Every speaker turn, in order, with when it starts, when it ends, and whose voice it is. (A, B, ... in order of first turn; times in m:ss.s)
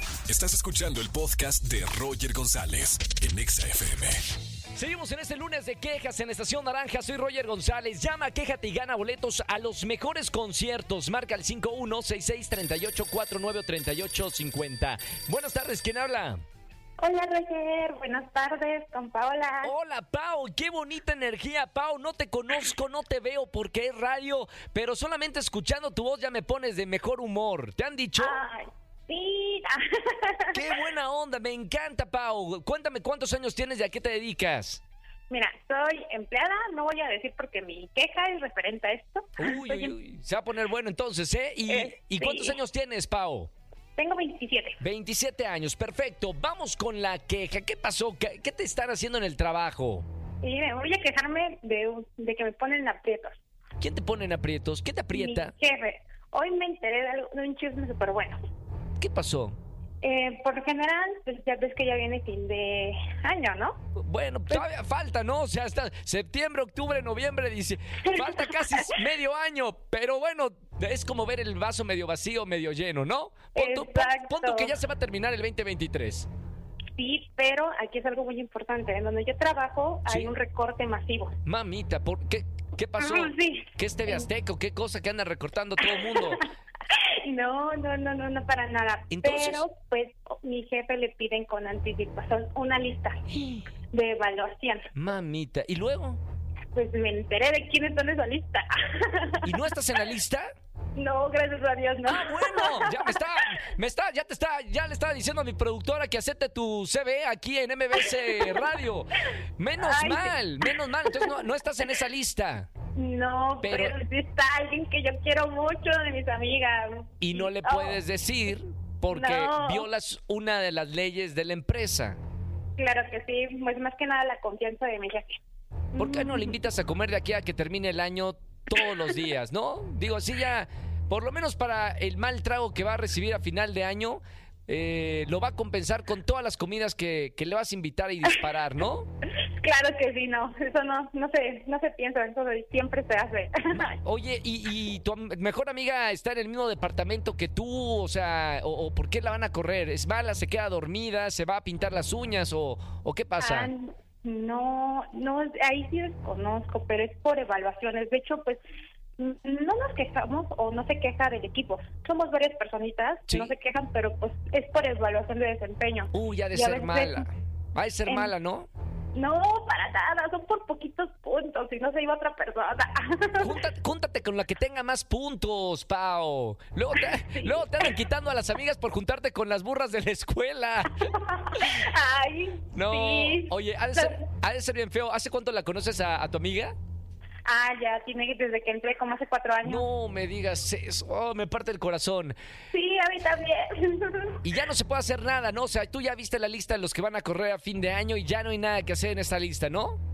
0:00.3-0:04.2 A
0:04.7-0:16.4 B
0:17.0-0:19.7 C
0:19.6-0:28.4 B
0:28.2-0:30.6 C
0:30.5-0:34.8 B
0:35.3-0:40.0 C
0:39.4-0:43.5 B
0:41.7-0:42.6 C
0:44.0-0:44.8 C
0:44.8-0:50.1 B
0:50.4-0:53.4 C
0:53.8-0:55.5 B
0:55.1-0:58.4 C
0:59.0-0:59.6 B
1:00.0-1:03.8 C
1:04.0-1:16.3 B
1:08.0-1:09.0 C
1:13.6-1:14.7 C
1:17.0-1:21.3 C
1:20.1-1:20.3 B
1:21.4-1:26.4 B
1:23.0-1:24.3 C
1:25.8-1:34.9 C
1:29.1-1:29.6 B
1:34.9-1:36.2 B
1:36.7-1:39.6 C
1:39.4-1:40.5 B
1:41.0-1:43.2 C
1:42.0-1:52.7 B
1:48.1-1:48.6 C
1:49.8-1:51.3 C
1:53.0-1:58.0 C
1:53.6-1:54.0 B
1:57.2-2:02.2 B
1:59.1-1:59.9 C
2:02.8-2:05.4 C
2:05.9-2:06.6 C
2:06.0-2:19.1 B
2:19.5-2:23.9 C
2:23.7-2:33.7 B
2:33.4-2:38.6 C
2:39.2-2:47.2 C
2:43.3-2:43.5 B
2:46.1-2:48.7 B
2:48.1-2:48.3 C
2:49.1-2:53.5 C
2:53.4-3:01.6 B
2:57.0-2:57.9 C
3:01.0-3:04.2 C
3:02.7-3:06.7 B
3:07.4-3:09.9 C
3:09.6-3:12.4 B
3:12.7-3:14.4 C
3:14.4-3:20.0 B